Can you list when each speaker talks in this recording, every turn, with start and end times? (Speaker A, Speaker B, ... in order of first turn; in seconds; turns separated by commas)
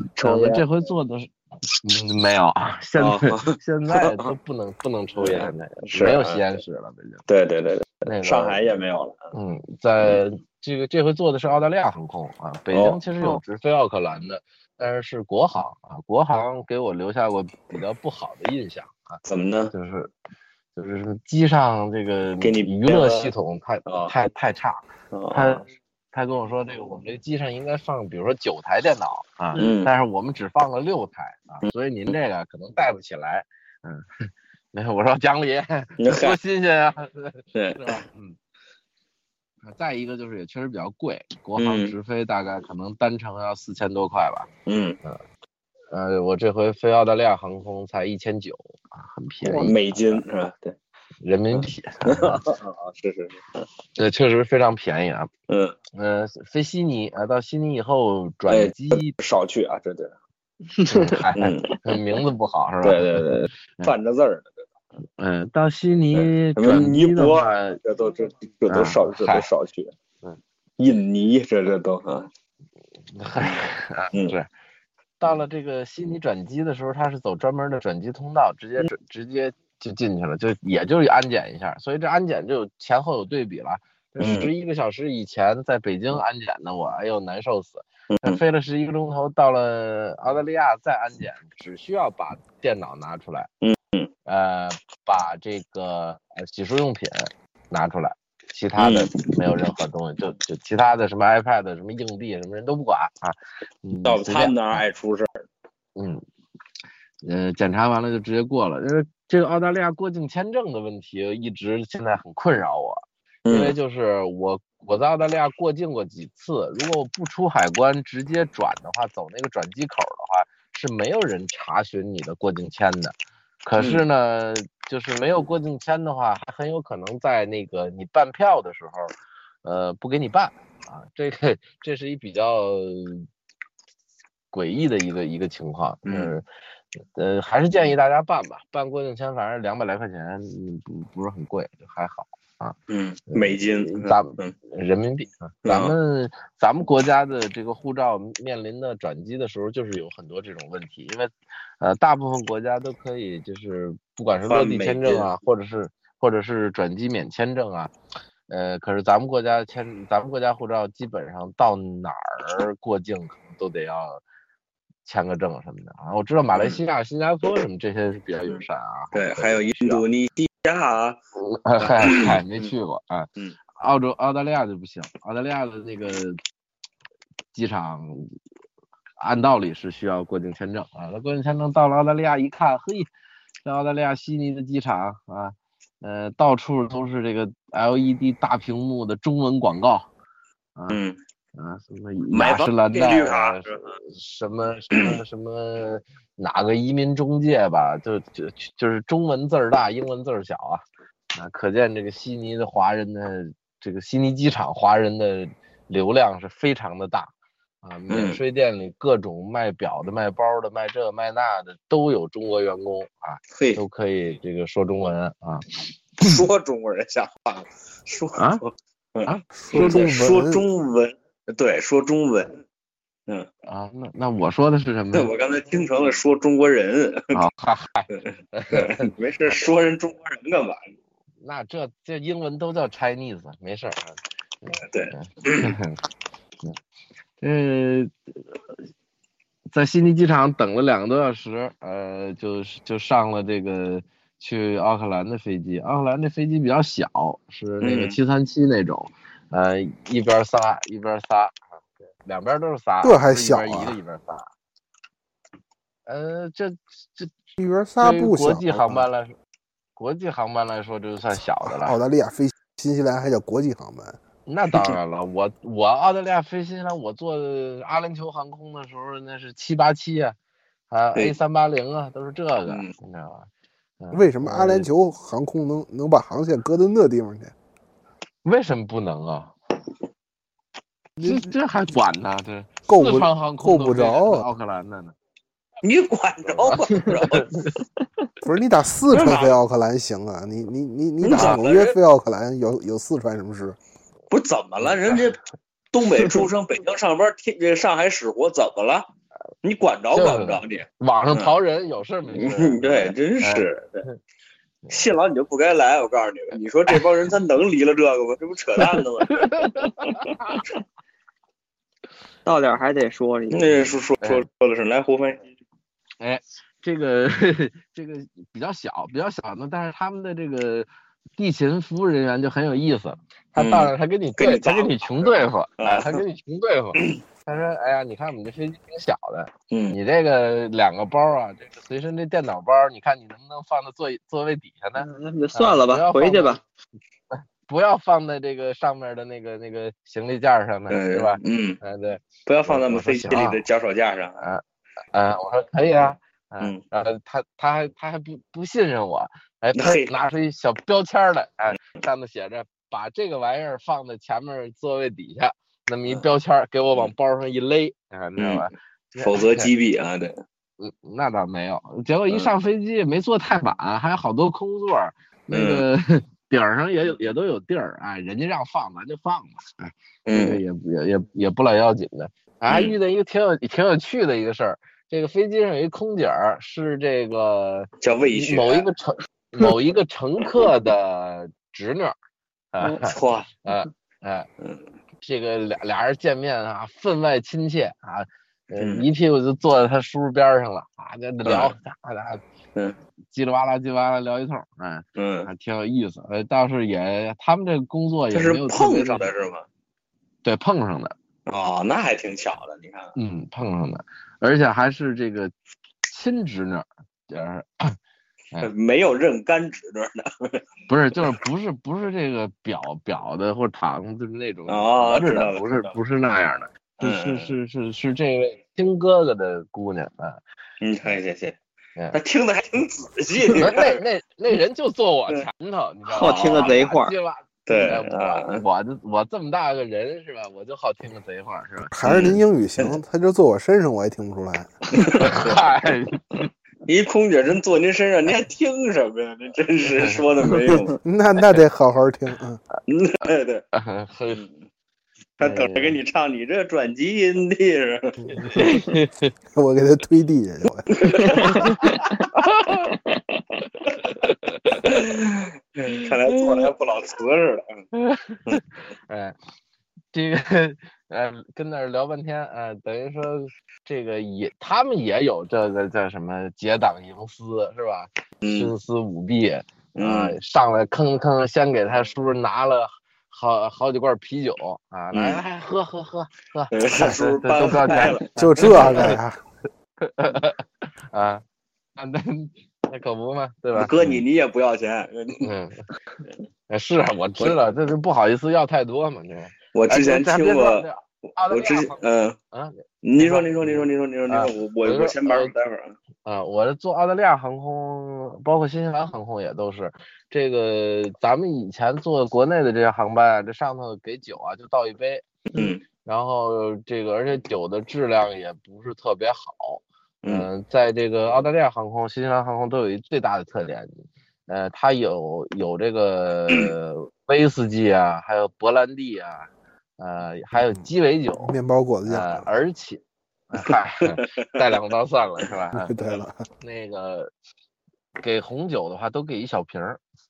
Speaker A: 0.1-0.6, Speaker B: 0.2-7.2, Speaker A: 3.0-4.3, Speaker A: 5.2-6.4, Speaker A: 7.3-9.2, Speaker B: 8.0-8.6, Speaker B: 9.3-19.2, Speaker A: 12.7-13.4, Speaker A: 19.3-19.7, Speaker B: 19.7-20.1, Speaker B: 20.7-38.4, Speaker A: 22.4-23.3, Speaker A: 23.9-24.1, Speaker A: 25.1-25.6, Speaker A: 29.6-29.9, Speaker A: 36.0-36.4, Speaker A: 37.5-38.0, Speaker B: 39.6-44.5, Speaker A: 41.6-41.9, Speaker A: 44.6-45.0, Speaker B: 45.9-50.2, Speaker A: 49.4-50.8, Speaker B: 51.2-52.4, Speaker A: 51.5-53.6, Speaker B: 54.0-55.3, Speaker A: 55.5-55.7, Speaker B: 55.9-59.1, Speaker A: 58.5-60.1, Speaker B: 60.9-63.2, Speaker A: 61.4-61.8, Speaker A: 62.8-64.7, Speaker B: 65.2-67.8, Speaker A: 66.1-69.9, Speaker B: 68.7-69.5, Speaker A: 70.8-72.3, Speaker B: 73.1-74.5, Speaker A: 73.4-74.3, Speaker B: 75.2-93.5, Speaker A: 84.2-84.5, Speaker A: 88.1-88.4, Speaker A: 93.6-94.1, Speaker B: 94.2-104.8, Speaker A: 98.8-99.3, Speaker A: 104.0-105.5, Speaker B: 106.0-106.2, Speaker B: 107.2-129.1, Speaker A: 113.4-113.7, Speaker A: 123.8-124.0, Speaker B: 129.6-133.3, Speaker B: 134.5-136.4, Speaker A: 136.1-136.3, Speaker B: 137.1-142.8, Speaker A: 142.9-144.5, Speaker B: 143.3-157.9, Speaker A: 145.6-145.9, Speaker A: 154.4-155.3, Speaker B: 158.5-164.2, Speaker B: 165.0-170.0, Speaker A: 166.5-166.8, Speaker A: 169.1-171.2, Speaker B: 171.3-176.4, Speaker A: 171.8-172.7, Speaker B: 177.5-178.3, Speaker B: 179.2-183.1, Speaker B: 183.6-190.1, Speaker A: 190.9-191.2, Speaker B: 191.5-200.8, Speaker A: 192.3-193.8, Speaker A: 194.9-195.2, Speaker B: 201.3-215.7, Speaker A: 208.1-208.4, Speaker A: 213.5-213.8, Speaker A: 216.2-222.6, Speaker B: 218.3-218.6, Speaker B: 219.2-220.3, Speaker C: 219.5-220.6, Speaker B: 223.7-225.3, Speaker A: 225.1-227.4, Speaker B: 227.3-229.1, Speaker A: 228.7-230.8, Speaker B: 231.4-236.0, Speaker A: 234.8-235.8, Speaker B: 237.4-238.1, Speaker B: 239.7-251.6, Speaker A: 247.8-248.2, Speaker B: 252.2-254.5, Speaker C: 253.0-254.0, Speaker B: 256.1-257.3, Speaker C: 257.6-259.1, Speaker B: 258.0-259.3, Speaker B: 259.9-262.0, Speaker C: 261.6-264.2, Speaker B: 264.4-270.4, Speaker B: 270.9-273.5, Speaker B: 274.0-274.9, Speaker C: 274.1-277.5, Speaker B: 278.4-279.5, Speaker C: 281.2-281.5, Speaker B: 281.2-285.1, Speaker C: 282.9-284.4, Speaker A: 285.8-287.6, Speaker B: 286.6-287.7, Speaker C: 288.4-293.8, Speaker A: 289.1-289.6, Speaker A: 291.2-292.0, Speaker B: 291.3-291.6, Speaker A: 294.3-295.4, Speaker B: 294.8-295.3, Speaker A: 295.9-299.1, Speaker A: 299.6-301.5, Speaker B: 300.1-304.1, Speaker A: 302.3-304.0, Speaker A: 304.9-309.6, Speaker B: 309.3-310.6, Speaker D: 312.4-313.9, Speaker A: 313.5-315.4, Speaker B: 316.2-336.6, Speaker A: 323.6-326.2, Speaker A: 329.7-330.0, Speaker D: 335.0-336.6, Speaker B: 337.6-343.6, Speaker A: 340.9-341.8, Speaker A: 342.4-344.4, Speaker B: 345.1-359.7, Speaker A: 349.8-350.1, Speaker A: 358.4-358.7, Speaker A: 359.2-360.4, Speaker B: 360.8-382.1, Speaker A: 365.5-365.8, Speaker A: 370.2-370.6, Speaker A: 372.7-372.9, Speaker A: 378.0-378.9, Speaker B: 382.7-384.5, Speaker A: 382.8-383.6, Speaker B: 385.2-392.4, Speaker A: 388.8-389.1, Speaker A: 391.4-391.7, Speaker B: 393.3-399.3, Speaker A: 395.2-395.5, Speaker A: 398.3-399.6, Speaker B: 400.4-401.1, Speaker A: 401.5-403.1, Speaker B: 403.1-405.5, Speaker B: 406.1-407.9, Speaker A: 408.6-410.6, Speaker B: 410.9-420.4, Speaker A: 414.7-415.9, Speaker A: 417.0-417.5, Speaker A: 420.8-421.6, Speaker A: 422.1-424.0, Speaker B: 423.5-431.9, Speaker D: 426.1-427.1, Speaker A: 426.2-426.7, Speaker A: 427.7-428.6, Speaker C: 431.9-434.7, Speaker A: 432.0-432.9, Speaker A: 434.9-435.6, Speaker B: 435.0-436.5, Speaker A: 436.9-441.0, Speaker B: 439.9-440.2, Speaker C: 441.0-442.6, Speaker A: 442.9-443.6, Speaker B: 443.7-444.4, Speaker A: 445.4-448.3, Speaker B: 445.4-446.0, Speaker C: 448.2-448.8, Speaker B: 448.4-449.3, Speaker C: 449.5-451.4, Speaker A: 450.9-451.6, Speaker D: 451.2-452.1, Speaker B: 451.5-452.9, Speaker B: 454.1-455.1, Speaker A: 454.8-457.8, Speaker B: 457.9-459.3, Speaker B: 460.1-479.2, Speaker A: 468.4-468.7, Speaker A: 469.9-470.4, Speaker A: 475.1-475.4, Speaker A: 476.7-479.1, Speaker C: 478.4-479.4, Speaker B: 480.0-481.4, Speaker B: 482.0-484.1, Speaker A: 483.7-485.5, Speaker B: 485.4-485.9, Speaker B: 486.7-495.5, Speaker A: 489.7-490.9, Speaker A: 491.5-492.4, Speaker A: 493.0-495.9, Speaker B: 496.2-505.2, Speaker A: 505.5-505.8, Speaker B: 506.0-521.5, Speaker A: 510.2-510.5, Speaker C: 521.4-522.5, Speaker B: 522.0-525.9, Speaker C: 525.7-526.4, Speaker B: 526.6-527.3, Speaker B: 528.2-530.0